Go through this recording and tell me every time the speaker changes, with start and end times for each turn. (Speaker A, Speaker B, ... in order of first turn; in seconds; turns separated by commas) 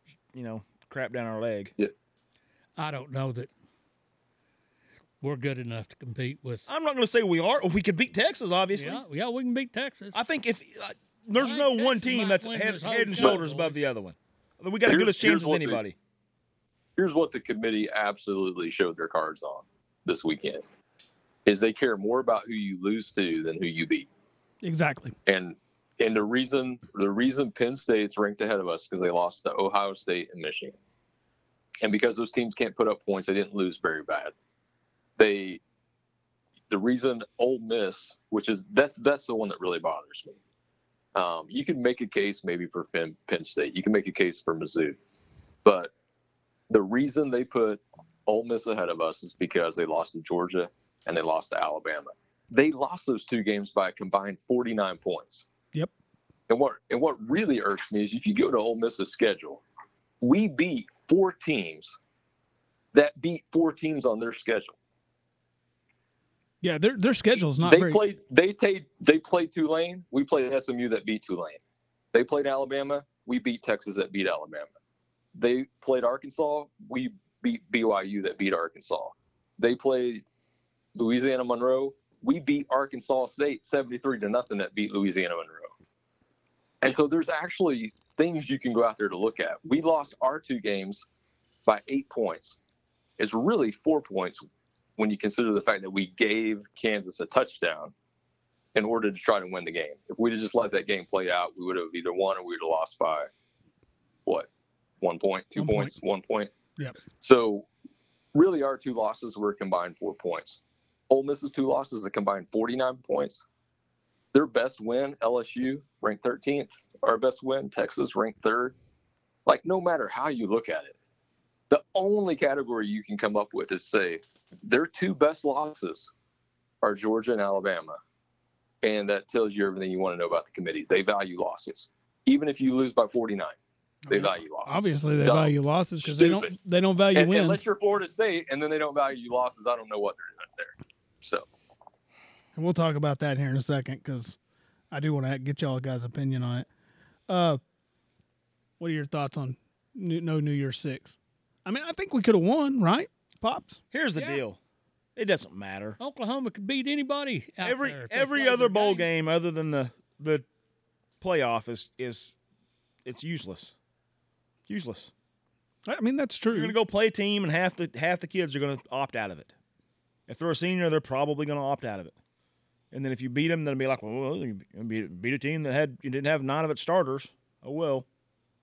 Speaker A: 0.3-1.7, Speaker B: 2.8-3.5, Speaker B: 5.2-6.7, Speaker A: 6.7-9.0, Speaker B: 8.8-10.2, Speaker A: 10.1-16.0, Speaker B: 11.3-13.8, Speaker C: 14.9-15.8, Speaker C: 17.0-20.6, Speaker C: 21.5-24.1, Speaker D: 24.6-25.2, Speaker C: 25.3-30.8, Speaker C: 31.8-34.3, Speaker C: 35.2-35.6, Speaker C: 36.7-40.4, Speaker C: 41.1-45.0, Speaker C: 45.6-45.9, Speaker C: 46.7-55.5, Speaker C: 56.5-59.6, Speaker C: 60.2-62.0, Speaker C: 62.9-64.8, Speaker D: 66.6-68.0, Speaker C: 67.3-71.6, Speaker C: 72.1-74.7, Speaker C: 75.4-80.2, Speaker C: 81.0-85.7, Speaker C: 86.8-91.1, Speaker C: 91.7-92.6, Speaker C: 93.2-94.4, Speaker C: 95.0-97.9, Speaker C: 98.8-103.3, Speaker C: 105.0-106.5, Speaker D: 105.6-106.0, Speaker C: 107.2-107.7, Speaker C: 108.3-113.5, Speaker C: 114.3-118.8, Speaker C: 119.5-121.0, Speaker C: 121.7-126.1, Speaker C: 126.8-128.0, Speaker C: 128.8-133.6, Speaker D: 134.1-137.6, Speaker C: 134.1-136.6, Speaker C: 137.1-141.5, Speaker D: 142.6-144.4, Speaker D: 144.9-146.7, Speaker D: 147.3-147.6, Speaker D: 148.8-153.8, Speaker A: 153.9-154.6, Speaker A: 155.2-156.0, Speaker B: 156.0-159.1, Speaker A: 157.6-160.4, Speaker A: 161.2-162.3, Speaker A: 163.1-163.8, Speaker A: 164.7-165.1, Speaker D: 165.9-166.8, Speaker A: 166.5-169.5, Speaker A: 170.3-172.2, Speaker A: 172.9-178.1